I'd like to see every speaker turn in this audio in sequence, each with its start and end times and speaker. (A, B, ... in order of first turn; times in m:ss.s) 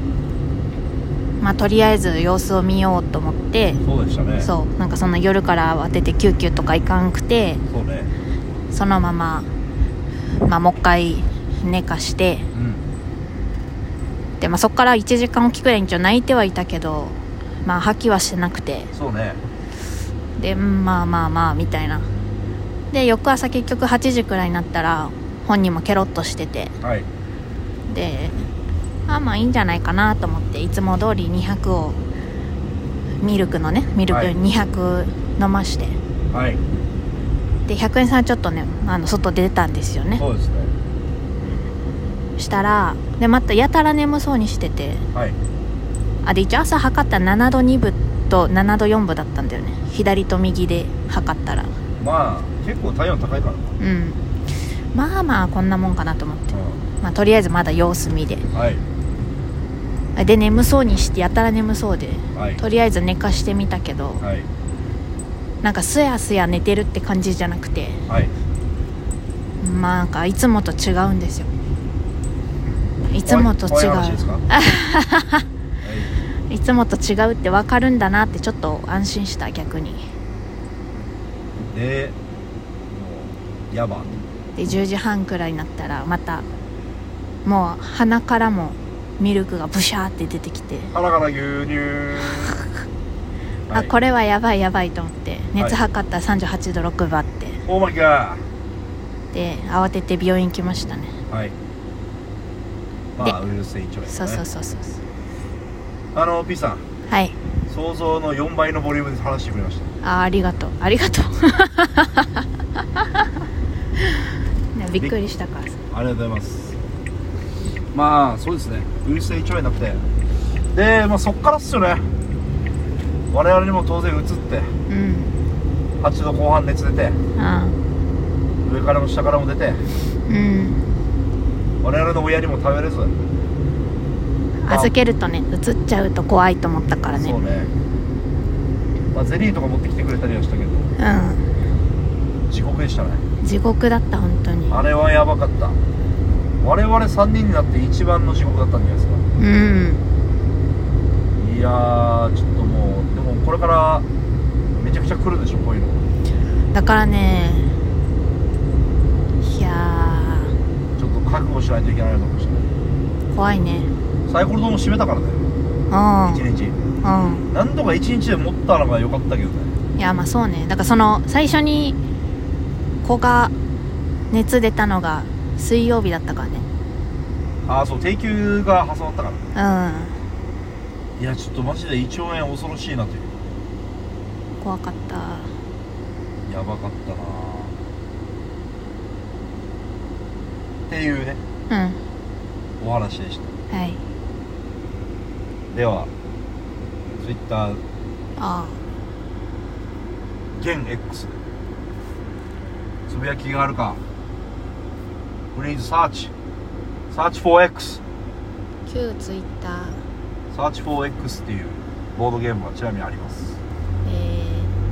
0:01.4-0:03.8 A
0:03.8-0:04.5 B
0:04.4-0:07.6 A
0:07.7-0:08.1 B
0:08.7-0:09.5 A
0:10.4-0:12.5 A
0:12.5-0:12.8 B
0:14.4-0:18.9 A
0:18.9-0:19.4 B
0:20.4-0:22.1 A
0:22.9-0:26.7 A
0:26.8-0:27.1 B
0:27.9-0:28.5 A
0:29.1-0:32.0 A
0:33.2-0:36.0 A
0:34.1-0:34.3 B
0:36.3-0:36.6 B
0:37.7-0:40.2 A
0:40.2-0:40.7 B
0:42.4-0:45.0 A
0:46.2-0:51.7 A
0:52.0-0:53.7 B
0:53.8-0:54.2 A
0:54.9-0:58.5 A
0:56.5-0:56.8 B
0:58.5-0:58.8 B
1:00.1-1:04.2 A
1:02.3-1:02.6 B
1:04.2-1:04.5 B
1:05.6-1:08.0 A
1:08.1-1:08.3 B
1:09.6-1:11.5 A
1:13.1-1:15.4 A
1:13.2-1:14.4 B
1:15.8-1:16.1 B
1:16.5-1:20.1 A
1:21.7-1:22.2 B
1:22.9-1:24.1 B
1:24.6-1:26.5 A
1:27.4-1:30.9 A
1:30.9-1:32.6 B
1:33.7-1:37.6 A
1:37.6-1:38.4 B
1:39.3-1:41.2 A
1:43.2-1:44.4 B
1:44.1-1:45.0 A
1:46.1-1:46.8 B
1:47.1-1:47.4 A
1:47.7-1:49.9 B
1:50.0-1:52.4 A
1:54.7-1:55.8 A
1:55.9-1:56.8 B
1:57.9-2:00.0 B
2:00.7-2:02.1 B
2:03.3-2:04.8 B
2:04.9-2:05.3 A
2:06.0-2:07.2 B
2:07.4-2:07.8 A
2:08.6-2:09.8 B
2:10.3-2:10.8 A
2:11.8-2:13.2 B
2:14.6-2:17.4 A
2:14.6-2:14.9 B
2:17.2-2:17.7 B
2:19.1-2:20.9 B
2:21.0-2:21.5 A
2:22.5-2:23.2 B
2:23.4-2:24.8 A
2:24.7-2:25.8 B
2:26.6-2:29.2 B
2:29.4-2:30.0 A
2:31.4-2:34.0 B
2:34.8-2:36.0 B
2:36.7-2:37.8 A
2:39.4-2:40.6 A
2:41.0-2:42.7 B
2:43.3-2:43.9 A
2:44.3-2:45.5 B
2:45.9-2:46.4 A
2:46.3-2:46.8 B
2:47.0-2:47.5 A
2:47.5-2:49.7 B
2:50.0-2:52.0 A
2:53.0-2:53.5 A
2:54.3-2:56.6 A
2:57.6-2:59.4 B
2:59.5-3:00.2 A
3:01.2-3:03.3 B
3:04.6-3:05.5 A
3:06.4-3:07.7 B
3:10.9-3:11.4 B
3:11.7-3:12.0 A
3:12.8-3:13.5 B
3:13.7-3:14.0 A
3:15.7-3:16.1 B
3:17.2-3:17.8 B
3:18.4-3:18.8 A
3:20.5-3:21.4 B
3:23.1-3:24.0 B
3:25.5-3:26.3 B
3:27.1-3:28.0 B
3:28.8-3:30.0 A
3:30.5-3:33.6 B
3:34.0-3:34.7 A